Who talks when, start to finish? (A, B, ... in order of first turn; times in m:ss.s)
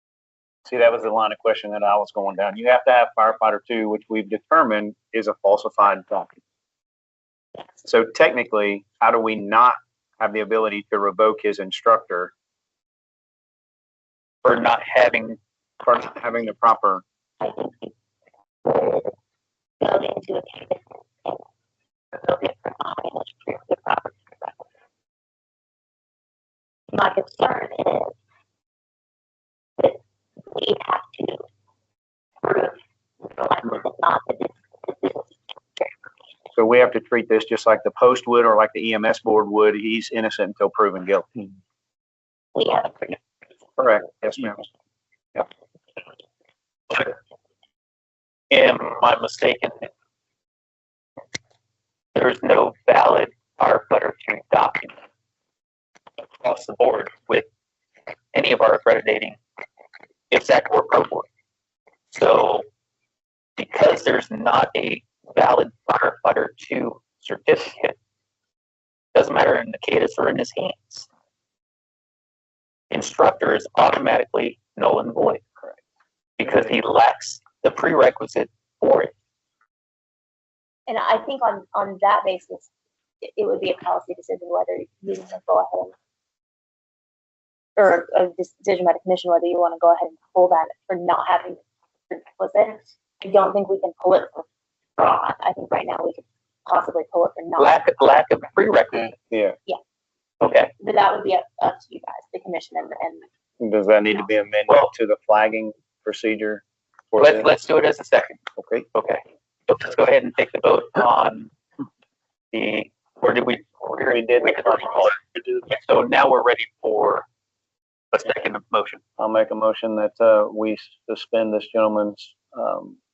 0:00.6-0:06.3 A
0:07.8-0:12.3 A
0:14.4-0:15.4 B
0:15.8-0:17.0 A
0:17.4-0:17.9 C
0:18.6-0:19.1 C
0:19.8-0:21.4 C
0:22.1-0:24.6 C
0:26.9-0:28.1 C
0:29.8-0:31.4 C
0:32.4-0:35.9 C
0:36.6-0:41.3 A
0:42.5-0:43.2 C
0:43.8-0:44.6 A
0:48.5-0:49.9 B
0:52.1-0:54.9 B
0:56.2-0:57.4 B
0:58.3-0:59.4 B
1:00.3-1:01.3 B
1:02.1-1:02.6 B
1:03.6-1:08.0 B
1:09.1-1:11.1 B
1:12.9-1:15.4 B
1:16.4-1:19.1 B
1:20.9-1:22.7 C
1:23.2-1:25.9 C
1:27.8-1:34.4 C
1:35.0-1:37.8 C
1:37.6-1:39.1 B
1:39.3-1:39.6 A
1:40.4-1:40.7 B
1:40.8-1:43.2 C
1:43.6-1:47.5 A
1:47.2-1:48.4 B
1:48.6-1:48.8 A
1:48.9-1:51.5 B
1:52.5-1:55.2 B
1:54.1-1:55.4 A
1:55.7-1:57.2 B
1:58.1-1:59.0 B
1:59.2-2:03.0 A